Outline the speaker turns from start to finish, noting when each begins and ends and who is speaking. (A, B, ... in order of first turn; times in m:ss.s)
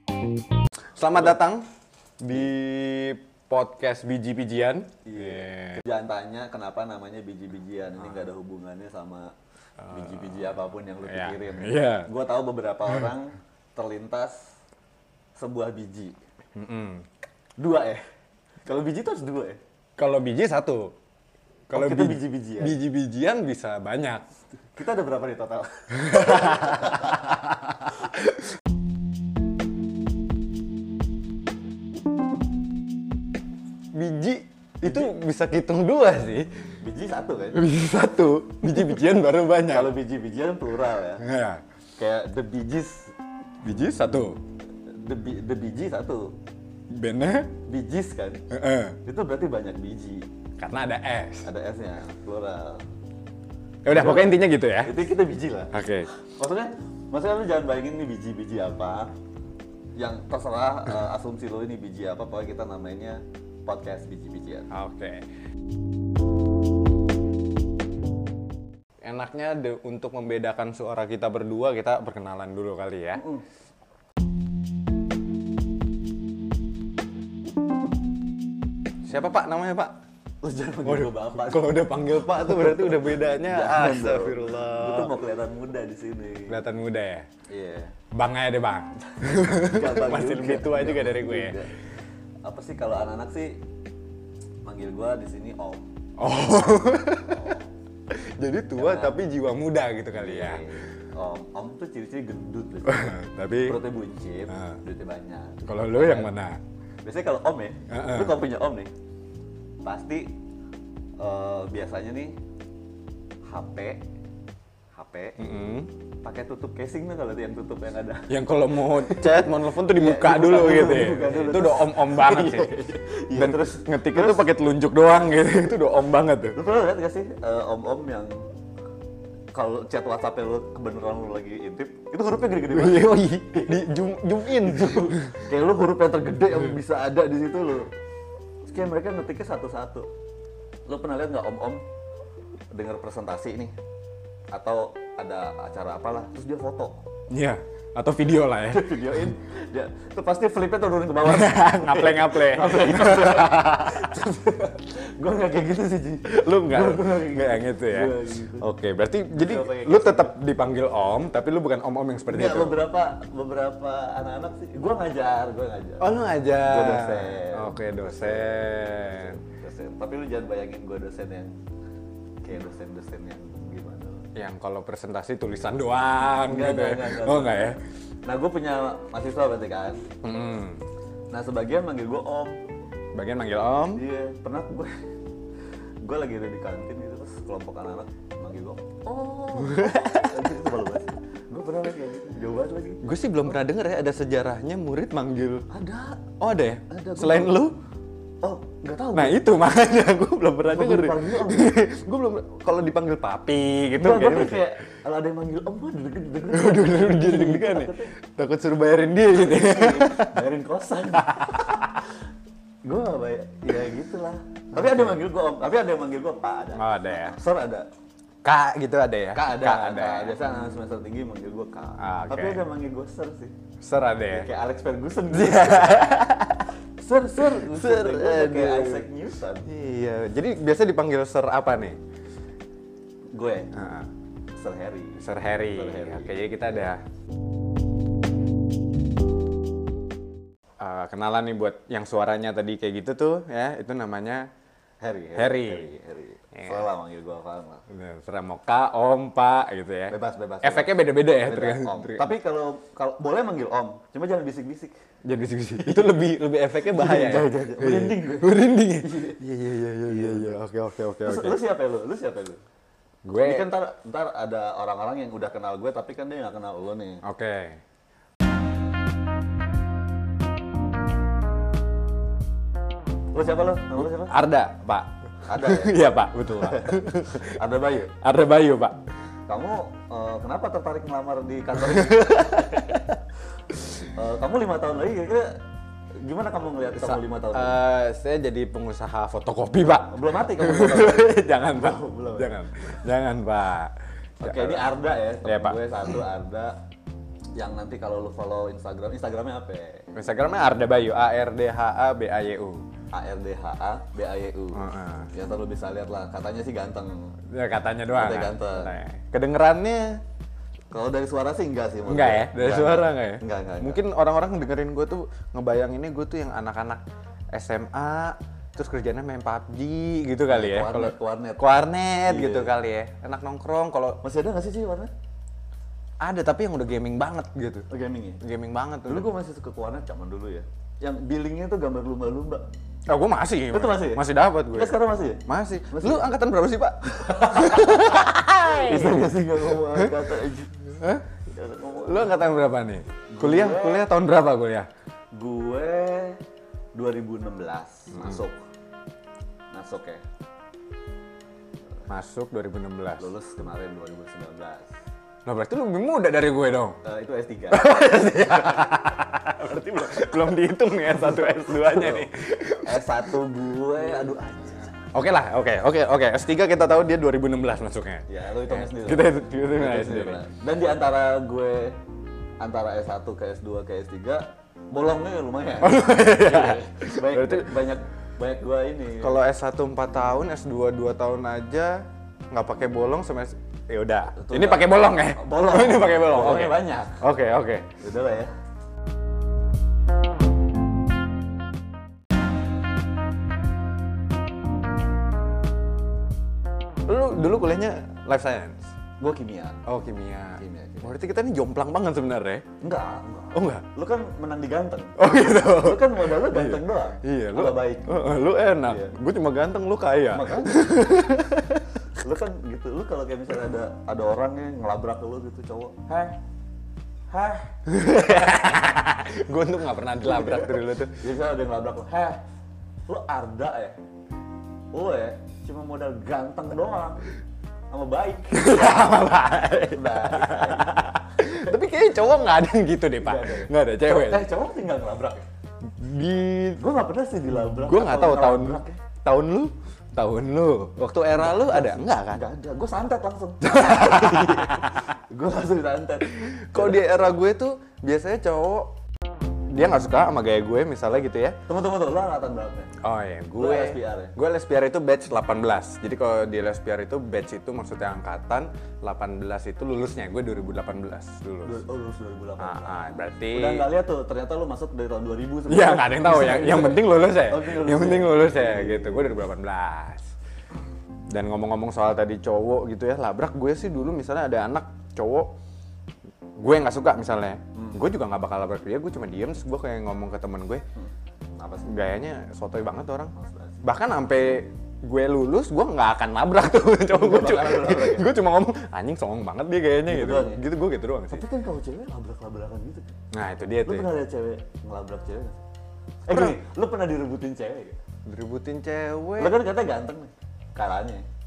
0:01.0-0:01.7 A
0:02.2-0:05.8 A
0:05.0-0:09.3 B
0:09.8-0:12.1 A
0:09.9-0:14.6 B
0:15.4-0:16.2 B
0:16.6-0:17.1 A
0:17.6-0:18.1 B
0:18.6-0:19.6 B
0:20.0-0:21.0 A
0:21.7-0:24.3 A
0:21.7-0:22.8 B
0:24.8-0:27.4 B
0:26.0-0:28.5 A
0:33.9-0:36.5 A
0:34.8-0:35.1 B
0:36.8-0:37.6 B
0:37.5-0:39.9 A
0:39.7-0:41.3 B
0:41.2-0:41.6 A
0:42.0-0:43.1 B
0:43.6-0:44.4 A
0:44.9-0:46.4 B
0:46.9-0:47.5 A
0:47.7-0:48.4 B
0:48.5-0:49.0 A
0:49.0-0:50.3 B
0:50.6-0:51.5 A
0:51.4-0:52.8 B
0:53.8-0:55.0 A
0:53.9-0:59.2 B
0:55.7-0:56.1 A
1:00.0-1:04.7 B
1:04.7-1:05.3 A
1:09.0-1:13.2 A
1:13.1-1:13.4 B
1:19.1-1:20.0 A
1:20.4-1:26.6 B
1:20.8-1:25.2 A
1:26.5-1:27.3 A
1:27.5-1:28.0 B
1:28.1-1:31.7 A
1:29.0-1:31.7 B
1:32.4-1:33.6 B
1:34.6-1:35.8 B
1:36.2-1:37.6 A
1:37.2-1:37.7 B
1:38.1-1:40.6 A
1:38.8-1:39.2 B
1:40.1-1:46.3 B
1:42.8-1:43.8 A
1:44.5-1:44.8 A
1:45.6-1:46.6 A
1:47.0-1:48.9 B
1:47.9-1:48.4 A
1:49.8-1:50.4 B
1:51.2-1:52.4 B
1:53.5-1:54.0 B
1:54.9-1:55.4 B
1:55.4-1:55.9 A
1:56.2-2:04.5 B
1:58.3-2:06.6 A
2:06.5-2:08.4 B
2:09.5-2:13.7 B
2:12.7-2:15.4 A
2:14.6-2:17.9 B
2:18.7-2:20.1 B
2:20.9-2:21.8 B
2:22.7-2:23.8 B
2:24.5-2:27.0 B
2:27.3-2:29.3 A
2:28.7-2:38.7 B
2:31.2-2:34.2 A
2:36.2-2:42.8 A
2:39.3-2:40.4 B
2:42.3-2:51.6 B
2:46.0-2:49.4 A
2:52.4-2:54.3 B
2:54.4-2:57.8 A
2:56.4-3:00.1 B
3:00.2-3:00.8 A
3:01.3-3:02.6 B
3:03.1-3:04.0 A
3:03.9-3:05.0 B
3:06.0-3:13.0 B
3:09.6-3:10.7 A
3:13.0-3:15.7 A
3:15.7-3:16.3 B
3:16.4-3:17.8 A
3:16.9-3:17.6 B
3:18.4-3:19.5 B
3:19.1-3:24.7 A
3:20.6-3:21.8 B
3:24.0-3:28.1 B
3:26.5-3:30.4 A
3:29.4-3:32.1 B
3:31.2-3:32.0 A
3:32.8-3:37.9 B
3:36.8-3:37.4 A
3:38.4-3:40.4 A
3:39.3-3:43.6 B
3:42.0-3:42.7 A
3:43.8-3:44.5 A
3:44.2-3:46.2 B
3:45.3-3:46.8 A
3:47.0-3:49.7 B
3:47.4-3:49.1 A
3:49.6-3:52.0 A
3:53.3-3:53.8 B
3:53.7-3:54.1 A
3:54.5-3:56.8 B
3:55.2-3:57.0 A
4:00.8-4:04.5 A
4:05.0-4:07.8 B
4:05.4-4:05.9 A
4:06.6-4:06.9 A
4:07.9-4:12.3 A
4:10.1-4:14.9 B
4:15.2-4:21.6 A
4:15.8-4:16.1 B
4:16.9-4:19.4 B
4:20.0-4:20.6 B
4:21.2-4:22.6 B
4:23.2-4:23.7 A
4:23.4-4:27.2 B
4:27.2-4:27.8 A
4:33.3-4:34.4 B
4:34.0-4:37.6 A
4:35.5-4:38.2 B
4:38.2-4:39.0 A
4:39.5-4:43.2 B
4:42.0-4:42.9 A
4:44.0-4:45.6 B
4:46.2-4:47.8 B
4:47.0-4:56.1 A
4:50.1-4:52.7 B
4:54.4-4:56.8 B
4:57.6-5:00.1 B
5:00.1-5:02.8 A
5:03.1-5:07.4 B
5:04.7-5:05.3 A
5:07.5-5:10.2 A
5:08.1-5:09.0 B
5:10.9-5:14.0 B
5:12.1-5:24.2 A
5:20.5-5:21.7 B
5:22.2-5:22.8 B
5:24.2-5:25.1 B
5:26.2-5:27.9 A
5:27.9-5:28.4 B
5:28.4-5:29.3 A
5:29.1-5:32.7 B
5:33.1-5:40.2 A
5:33.7-5:36.3 B
5:37.1-5:40.8 B
5:40.9-5:41.3 A
5:41.5-5:42.4 B
5:42.0-5:44.9 A
5:43.3-5:44.1 B
5:45.3-5:46.4 B
5:47.0-5:48.6 B
5:49.7-5:50.2 B
5:52.1-5:53.3 A
5:53.2-5:54.9 B
5:55.5-5:57.0 A
5:57.0-5:59.0 B
5:57.7-6:03.3 A
6:01.1-6:02.3 B
6:02.8-6:04.9 B
6:05.1-6:10.4 A
6:08.3-6:12.0 B
6:12.6-6:19.4 B
6:15.8-6:17.8 A
6:19.2-6:27.9 A
6:24.3-6:27.2 B
6:28.0-6:28.5 B
6:37.1-6:38.9 A
6:39.2-6:39.8 B
6:39.9-6:42.6 A
6:40.6-6:41.2 B
6:42.8-6:48.3 B
6:43.5-6:43.9 A
6:45.2-6:52.0 A
6:48.8-6:49.2 B
6:50.3-6:51.2 B
6:52.1-6:56.4 B
6:57.3-6:57.8 B
6:57.9-7:01.2 A
7:00.2-7:02.4 B
7:03.1-7:04.0 B
7:04.9-7:07.3 B
7:07.9-7:11.8 B
7:08.5-7:14.5 A
7:13.2-7:15.5 B
7:15.8-7:16.8 A
7:16.8-7:19.0 B
7:17.6-7:22.4 A
7:21.3-7:27.2 B
7:23.6-7:25.2 A
7:26.3-7:28.9 A
7:29.7-7:31.6 A
7:31.7-7:33.0 B
7:33.0-7:41.8 A
7:33.6-7:34.4 B
7:41.6-7:49.5 B
7:42.6-7:43.9 A
7:45.7-7:50.3 A
7:51.3-7:55.6 A
7:56.6-8:00.8 A
7:57.8-7:58.1 B
8:01.0-8:02.0 B
8:01.8-8:11.4 A
8:03.4-8:03.9 B
8:07.1-8:08.3 B
8:10.1-8:10.6 B
8:11.3-8:13.2 B
8:13.3-8:14.1 A
8:13.8-8:15.6 B
8:16.2-8:18.0 B
8:16.3-8:16.6 A
8:18.3-8:19.6 A
8:19.4-8:21.3 B